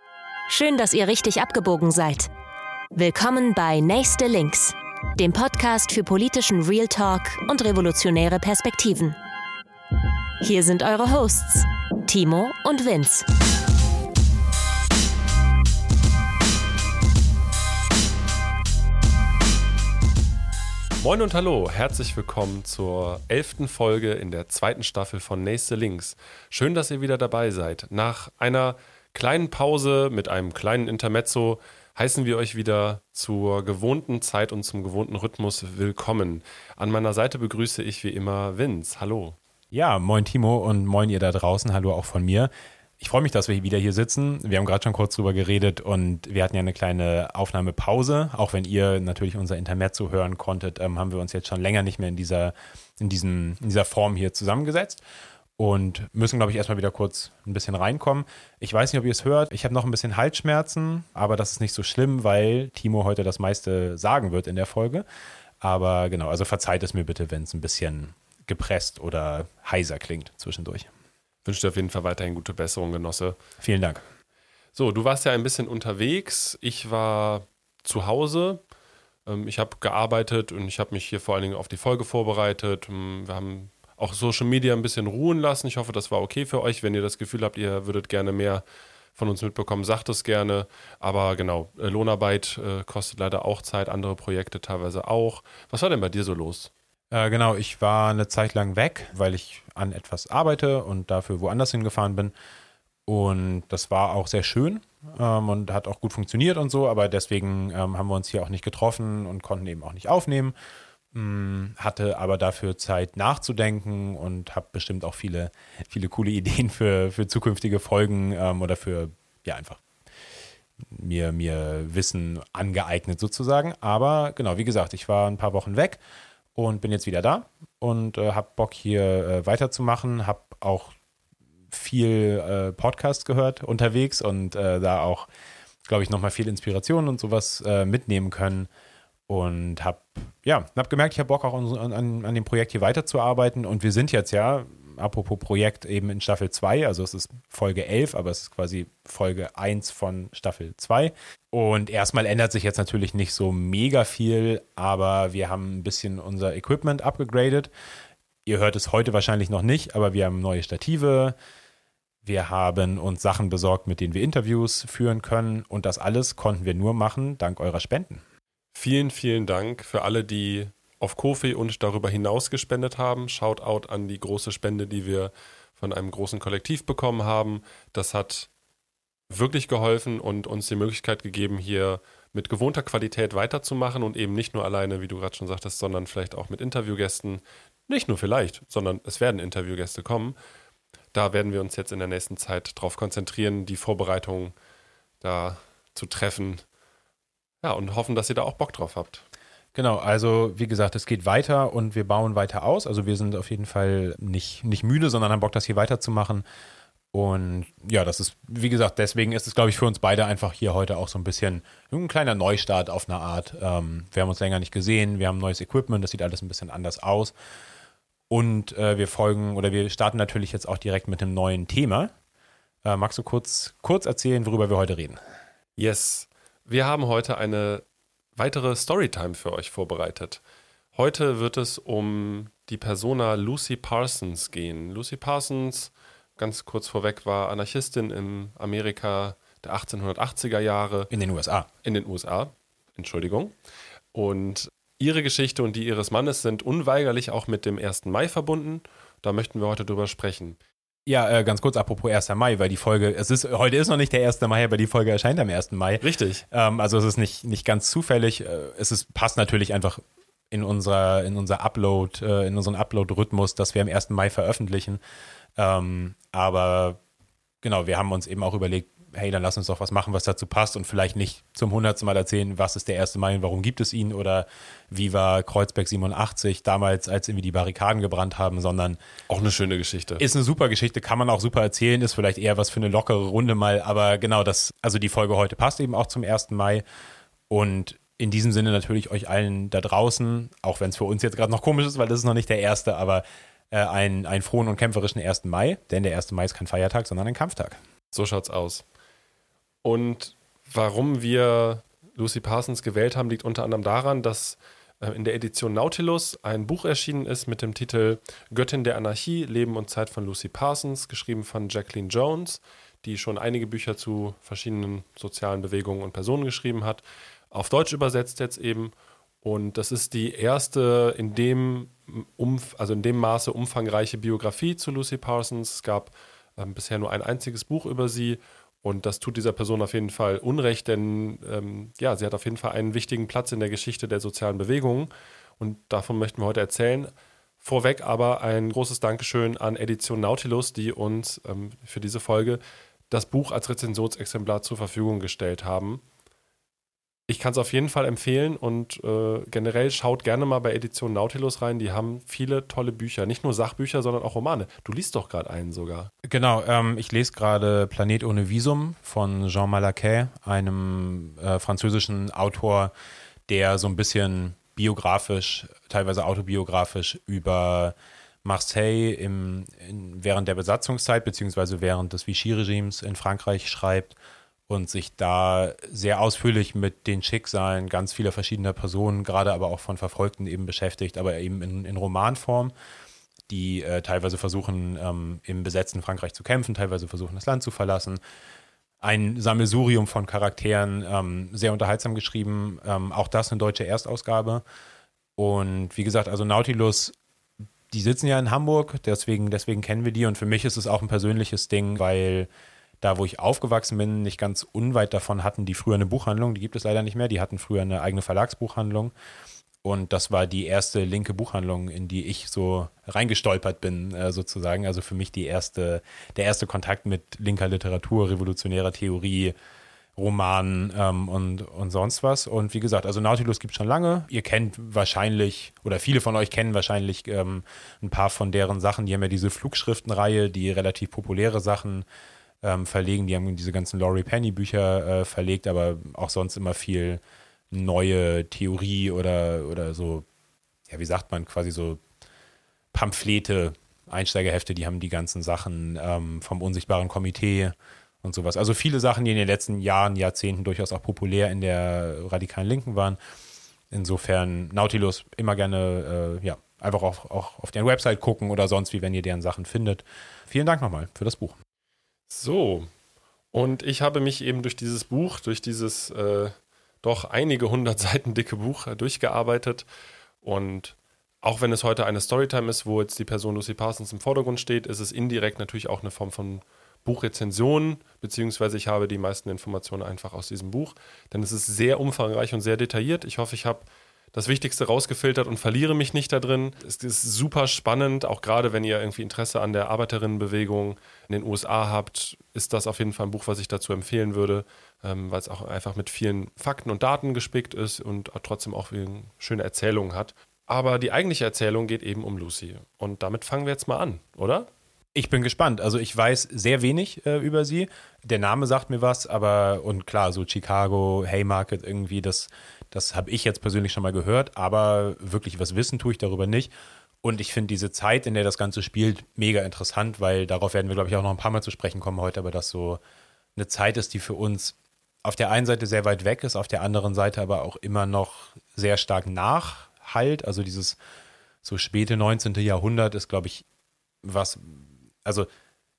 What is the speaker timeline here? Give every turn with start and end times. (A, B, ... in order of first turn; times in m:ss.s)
0:00.5-0:02.3 A
0:02.9-0:09.2 A
0:10.4-0:13.2 A
0:21.0-0:39.4 B
0:39.7-0:55.0 C
0:55.6-1:05.0 C
1:05.6-1:10.9 C
1:11.4-1:13.4 B
1:13.6-1:14.0 C
1:14.7-1:18.6 B
1:19.2-1:28.6 B
1:29.2-1:36.7 B
1:37.1-1:42.3 C
1:43.1-1:50.5 C
1:51.1-1:59.8 C
2:00.9-2:06.0 C
2:06.5-2:10.9 C
2:11.7-2:15.3 C
2:15.9-2:18.7 C
2:19.3-2:37.7 C
2:38.4-2:41.3 C
2:42.2-2:48.2 C
2:48.7-2:58.5 B
2:59.3-3:10.4 B
3:11.1-3:14.5 B
3:15.2-3:16.6 B
3:17.6-3:19.2 B
3:19.7-3:26.4 C
3:27.1-3:37.3 C
3:38.3-3:42.1 C
3:42.8-3:45.2 C
3:45.8-3:47.8 B
3:48.4-3:50.4 B
3:50.9-4:01.1 B
4:01.1-4:01.7 C
4:01.8-4:03.5 B
4:04.1-4:10.6 B
4:11.1-4:25.0 C
4:16.0-4:16.4 B
4:25.6-4:27.0 C
4:27.6-4:39.0 C
4:39.3-4:40.2 B
4:40.2-4:46.8 C
4:47.5-4:57.8 C
4:58.1-4:58.8 B
4:59.8-5:46.0 B
5:47.3-5:56.1 B
5:56.2-6:02.9 C
6:03.5-6:14.2 C
6:14.7-6:22.7 C
6:23.5-6:28.2 C
6:29.0-6:34.6 C
6:35.4-6:37.1 C
6:37.9-6:42.5 C
6:43.0-6:49.1 C
6:49.8-6:59.5 C
7:00.2-7:12.0 C
7:12.6-7:20.2 C
7:20.9-7:22.0 C
7:22.9-7:33.2 C
7:33.9-7:41.6 C
7:42.3-7:42.9 B
7:43.5-7:49.8 B
7:50.4-8:24.7 B
8:25.1-8:36.7 C
8:37.2-8:43.0 C
8:43.6-8:51.0 C
8:51.6-8:53.6 C
8:54.2-8:55.5 C